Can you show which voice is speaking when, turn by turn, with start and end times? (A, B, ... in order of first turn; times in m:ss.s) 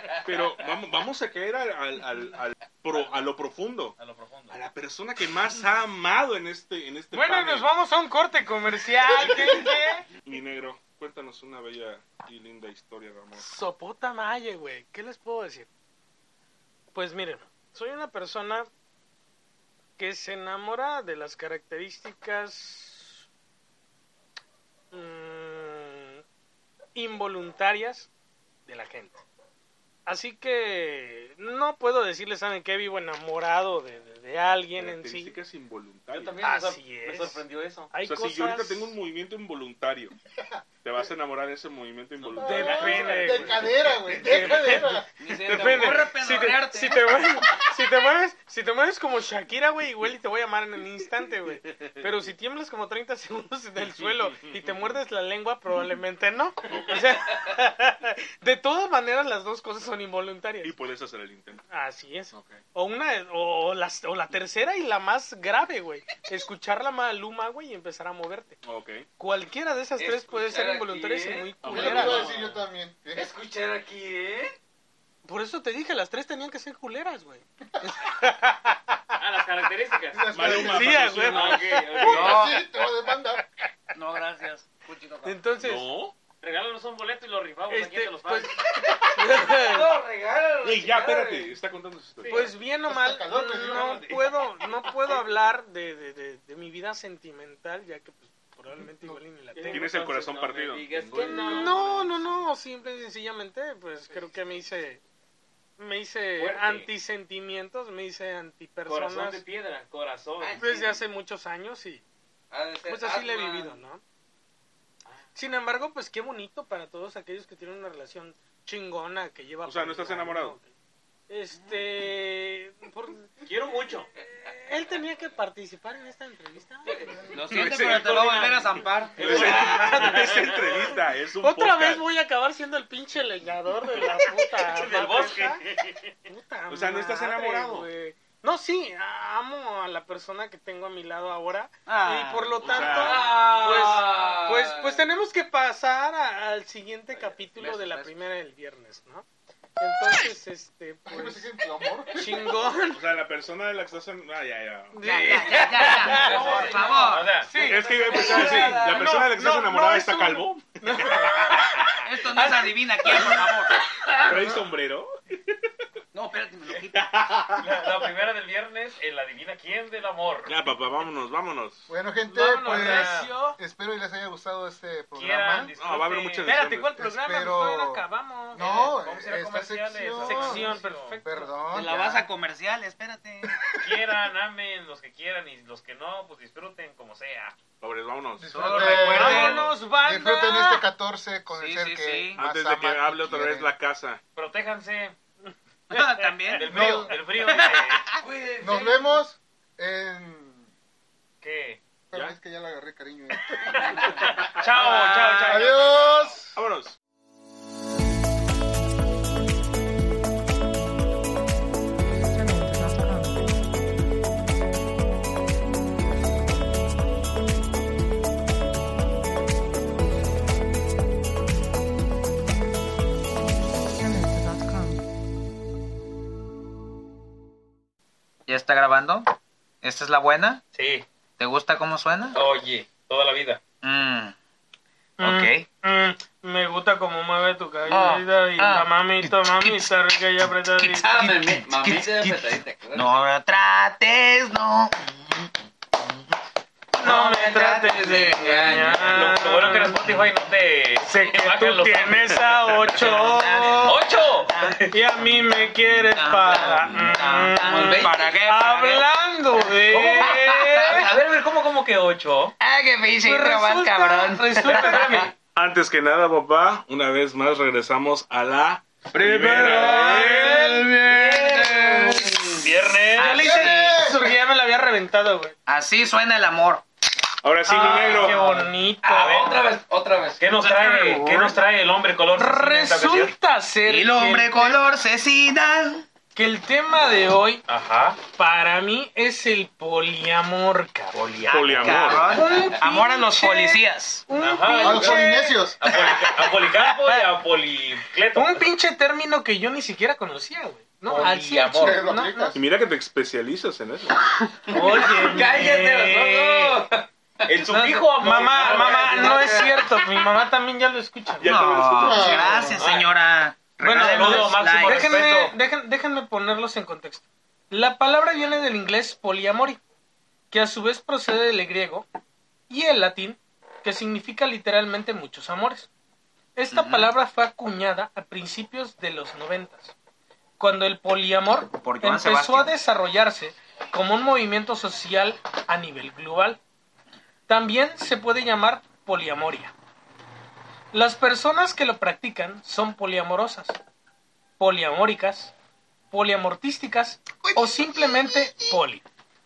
0:00.2-0:04.0 A
0:04.0-0:04.6 B
0:04.5-0:07.7 A
0:07.1-0:10.1 C
0:09.2-0:09.6 A
0:10.2-0:13.5 A
0:13.3-0:15.7 C
0:16.9-0:18.7 C
0:20.0-0:23.2 C
0:24.9-0:26.2 C
0:26.9-0:28.1 C
0:28.6-0:29.2 C
0:30.0-0:35.4 C
0:34.8-0:36.4 A
0:36.1-0:37.9 B
0:36.4-0:39.0 C
0:38.0-0:40.1 A
0:40.8-0:43.6 A
0:42.3-0:43.2 B
0:42.3-0:45.1 D
0:42.4-1:00.7 C
0:45.2-0:47.2 E
0:53.8-0:54.9 A
0:56.7-0:57.0 A
1:00.6-1:01.6 A
1:01.7-1:08.6 C
1:02.3-1:02.6 A
1:08.6-1:09.1 A
1:09.2-1:12.3 C
1:10.0-1:12.5 F
1:11.6-1:12.2 A
1:11.7-1:13.3 D
1:13.1-1:14.5 F
1:15.2-1:19.0 C
1:19.2-1:22.3 B
1:20.1-1:21.1 D
1:20.3-1:21.7 A
1:20.4-1:22.4 C
1:22.0-1:23.4 D
1:22.1-1:22.6 E
1:23.9-1:25.4 E
1:25.2-1:25.8 C
1:25.6-1:26.1 A
1:26.4-1:28.6 B
1:27.7-1:29.9 C
1:29.4-1:31.5 F
1:30.6-1:32.5 A
1:32.2-1:32.5 F
1:32.3-1:39.9 C
1:32.9-1:34.3 D
1:39.5-1:42.3 B
1:39.7-1:41.8 A
1:40.4-1:41.8 F
1:41.4-1:45.0 C
1:45.8-1:49.4 C
1:46.4-1:46.9 B
1:48.8-1:50.6 B
1:50.4-1:50.8 F
1:50.6-1:52.0 C
1:52.5-1:53.8 F
1:52.8-1:54.0 C
1:55.3-2:00.7 C
1:59.6-2:00.6 A
2:01.3-2:03.4 C
2:03.4-2:04.1 B
2:04.4-2:07.3 C
2:07.3-2:09.2 E
2:07.5-2:08.2 A
2:07.6-2:08.6 B
2:07.9-2:08.6 F
2:09.1-2:10.6 B
2:09.2-2:15.6 C
2:09.2-2:12.0 A
2:14.6-2:16.1 B
2:16.3-2:29.2 C
2:16.7-2:17.9 A
2:21.8-2:22.7 E
2:22.6-2:23.2 A
2:22.8-2:25.0 F
2:23.1-2:23.9 B
2:27.6-2:28.0 E
2:29.8-2:31.5 C
2:31.1-2:32.5 D
2:32.1-2:33.0 C
2:32.9-2:35.6 A
2:34.9-2:36.8 C
2:35.0-2:37.4 E
2:35.6-2:37.6 B
2:36.1-2:39.2 F
2:37.4-2:44.6 C
2:37.6-2:42.0 A
2:38.2-2:38.5 B
2:42.0-2:43.8 E
2:44.1-2:45.6 A
2:46.1-2:47.2 E
2:46.9-2:47.6 A
2:47.6-2:50.5 B
2:50.4-2:51.9 A
2:51.9-2:55.7 D
2:52.3-2:53.6 C
2:52.6-2:53.3 B
2:55.1-2:56.5 B
2:55.8-2:56.9 A
2:56.4-2:58.9 C
2:57.0-3:00.7 D
2:58.6-3:01.2 B
3:00.2-3:01.6 C
3:01.2-3:02.3 D
3:01.7-3:03.6 E
3:03.8-3:07.5 B
3:07.8-3:09.0 A
3:08.4-3:13.7 D
3:08.5-3:09.7 E
3:08.7-3:09.1 B
3:09.0-3:10.8 C
3:11.5-3:12.4 E
3:12.4-3:14.2 A
3:14.4-3:15.1 B
3:15.9-3:18.2 E
3:15.9-3:16.5 C
3:16.5-3:18.0 B
3:16.7-3:17.2 D
3:18.2-3:19.2 F
3:18.6-3:20.7 D
3:21.4-3:21.8 B
3:22.1-3:24.4 D
3:23.7-3:26.4 B
3:24.6-3:25.9 C
3:25.4-3:26.6 D
3:26.5-3:27.0 A
3:32.3-3:33.5 G
3:43.9-3:45.0 G
3:48.5-3:50.6 E
3:50.7-3:51.0 B
3:51.4-3:52.4 E
3:52.3-3:53.6 B
3:53.8-3:54.3 E
3:55.2-4:01.1 C
3:55.2-3:55.7 E
3:57.9-3:59.9 E
4:00.8-4:05.5 E
4:01.0-4:03.2 F
4:07.0-4:10.1 C
4:07.0-4:08.8 E
4:07.1-4:09.3 F
4:08.9-4:13.1 B
4:11.0-4:14.0 C
4:12.9-4:14.8 E
4:13.8-4:14.9 B
4:14.9-4:21.1 C
4:16.1-4:19.0 E
4:17.6-4:18.3 F
4:19.8-4:22.5 B
4:20.3-4:21.0 E
4:22.6-4:25.3 E
4:23.2-4:25.3 C
4:24.6-4:25.3 B
4:25.4-4:30.6 A
4:29.2-4:34.0 E
4:29.5-4:32.2 F
4:29.8-4:30.9 C
4:32.5-4:33.5 B
4:33.2-4:35.5 C
4:33.2-4:34.2 D
4:35.7-4:36.8 E
4:37.4-4:38.4 A
4:37.7-4:39.6 C
4:39.0-4:40.4 F
4:40.4-4:43.3 B
4:40.6-4:41.6 C
4:42.3-4:44.8 C
4:43.8-4:46.0 E
4:46.3-4:47.6 C
4:47.7-4:48.2 B
4:48.3-4:51.5 C
4:51.1-4:52.1 B
4:51.5-4:52.4 A
4:51.7-4:54.2 E
4:52.2-4:57.3 C
4:54.4-4:55.2 B
4:54.8-4:55.8 D
4:55.8-4:58.6 B
4:58.3-5:02.6 C
5:01.0-5:02.0 B
5:01.8-5:02.6 D
5:02.5-5:04.2 A
5:04.7-5:06.8 C
5:04.7-5:10.0 F
5:07.5-5:09.6 B
5:07.6-5:11.6 C
5:11.4-5:12.7 A
5:11.4-5:15.2 E
5:11.9-5:12.8 D
5:12.8-5:13.1 B
5:13.8-5:19.8 C
5:13.8-5:15.5 B
5:20.5-5:22.1 C
5:22.7-5:25.9 C
5:26.6-5:29.9 C
5:26.7-5:27.1 E
5:30.6-5:36.6 C
5:31.6-5:32.7 E
5:37.5-5:39.7 C
5:40.9-5:43.8 C
5:44.6-5:45.5 C
5:46.1-5:49.0 C
5:47.3-5:47.6 E